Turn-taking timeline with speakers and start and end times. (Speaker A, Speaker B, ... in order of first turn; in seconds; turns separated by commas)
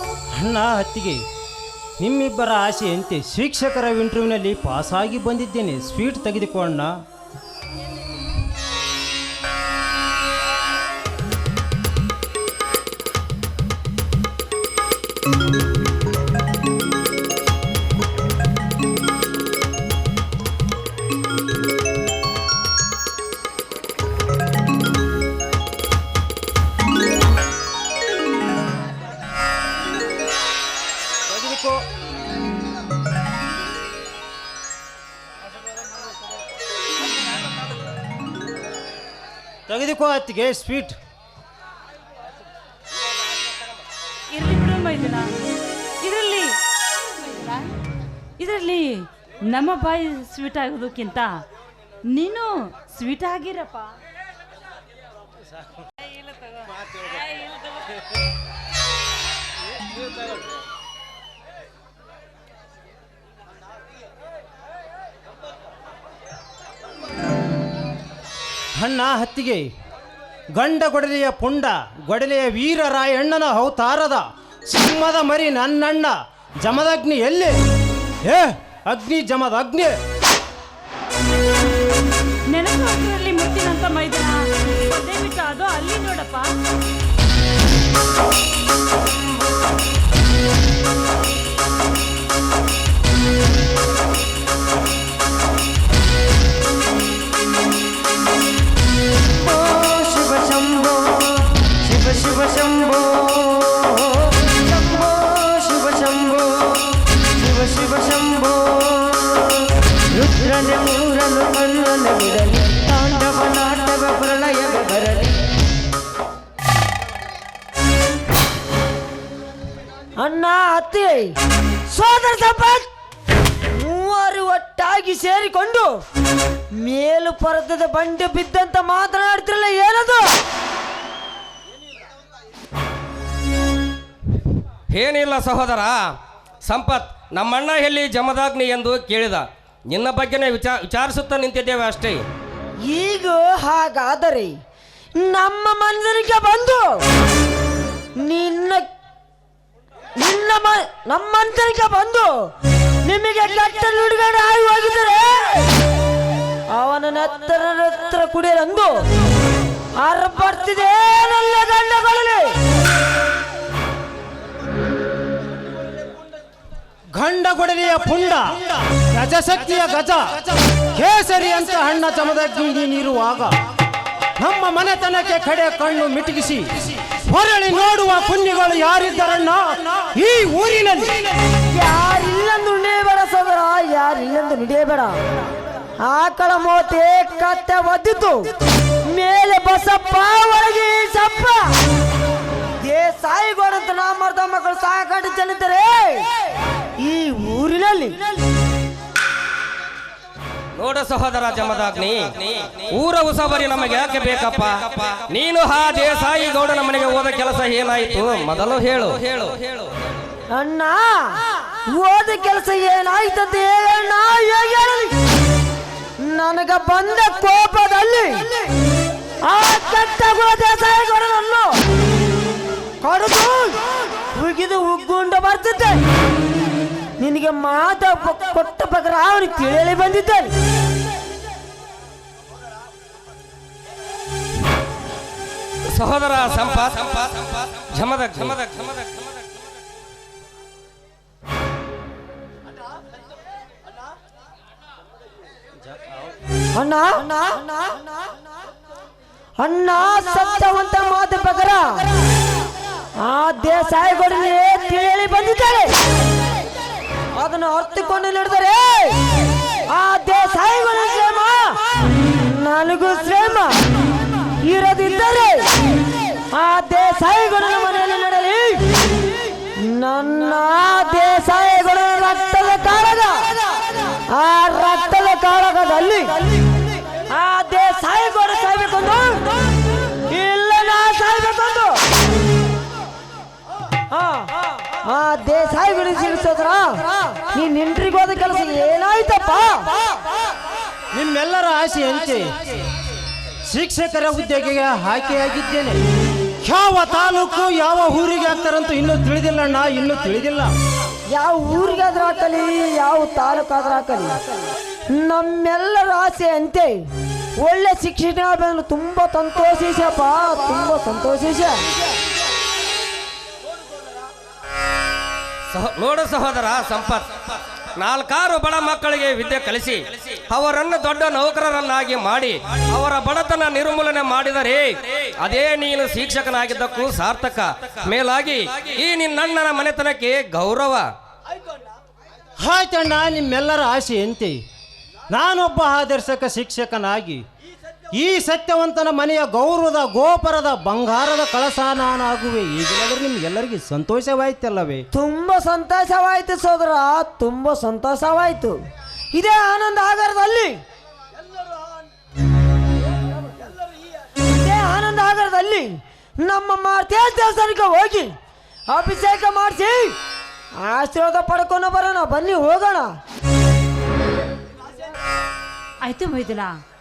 Speaker A: 0.3-1.2, Speaker A: 2.0-6.9, Speaker A: 31.3-31.8, Speaker A: 39.7-41.0, Speaker B: 44.3-45.3, Speaker B: 46.0-46.5, Speaker B: 47.1-47.7, Speaker B: 48.4-51.3, Speaker B: 52.1-53.9, Speaker A: 68.8-69.7, Speaker A: 70.5-77.5, Speaker A: 78.2-80.0, Speaker B: 82.5-86.5, Speaker C: 99.5-109.7, Speaker D: 110.2-111.2, Speaker C: 110.4-115.4, Speaker D: 112.0-112.3, Speaker D: 120.2-121.3, Speaker D: 121.9-122.9, Speaker D: 123.7-126.0, Speaker D: 126.7-130.4, Speaker E: 134.9-135.9, Speaker E: 136.6-142.2, Speaker D: 142.8-144.6, Speaker D: 145.2-147.0, Speaker D: 148.2-148.9, Speaker D: 150.2-152.5, Speaker D: 153.0-155.7, Speaker D: 156.7-159.1, Speaker D: 160.0-162.5, Speaker A: 167.1-173.6, Speaker A: 174.4-181.2, Speaker D: 181.7-185.2, Speaker D: 186.0-188.5, Speaker D: 189.0-191.8, Speaker D: 192.8-196.3, Speaker D: 197.0-198.2, Speaker E: 200.8-209.9, Speaker D: 210.5-215.1, Speaker D: 216.2-218.6, Speaker D: 219.4-221.8, Speaker D: 223.0-223.8, Speaker D: 224.3-226.0, Speaker D: 227.2-230.5, Speaker E: 235.8-239.3, Speaker D: 246.7-248.1, Speaker D: 249.6-252.1, Speaker D: 253.2-255.9, Speaker D: 257.3-259.2, Speaker D: 259.9-263.8, Speaker D: 264.6-265.7, Speaker D: 266.5-268.9, Speaker D: 269.8-273.6, Speaker D: 274.3-276.5, Speaker D: 277.3-279.6, Speaker D: 280.3-282.0, Speaker D: 284.1-290.1, Speaker A: 291.1-292.8, Speaker A: 293.7-296.0, Speaker A: 296.6-300.7, Speaker D: 301.3-311.9, Speaker E: 315.7-317.3, Speaker E: 317.9-331.1, Speaker A: 332.6-334.6, Speaker A: 335.3-337.4, Speaker A: 338.1-345.0, Speaker D: 345.1-348.8, Speaker D: 349.3-350.8, Speaker D: 354.4-358.4, Speaker D: 358.9-360.2, Speaker D: 360.8-363.1, Speaker B: 366.0-366.7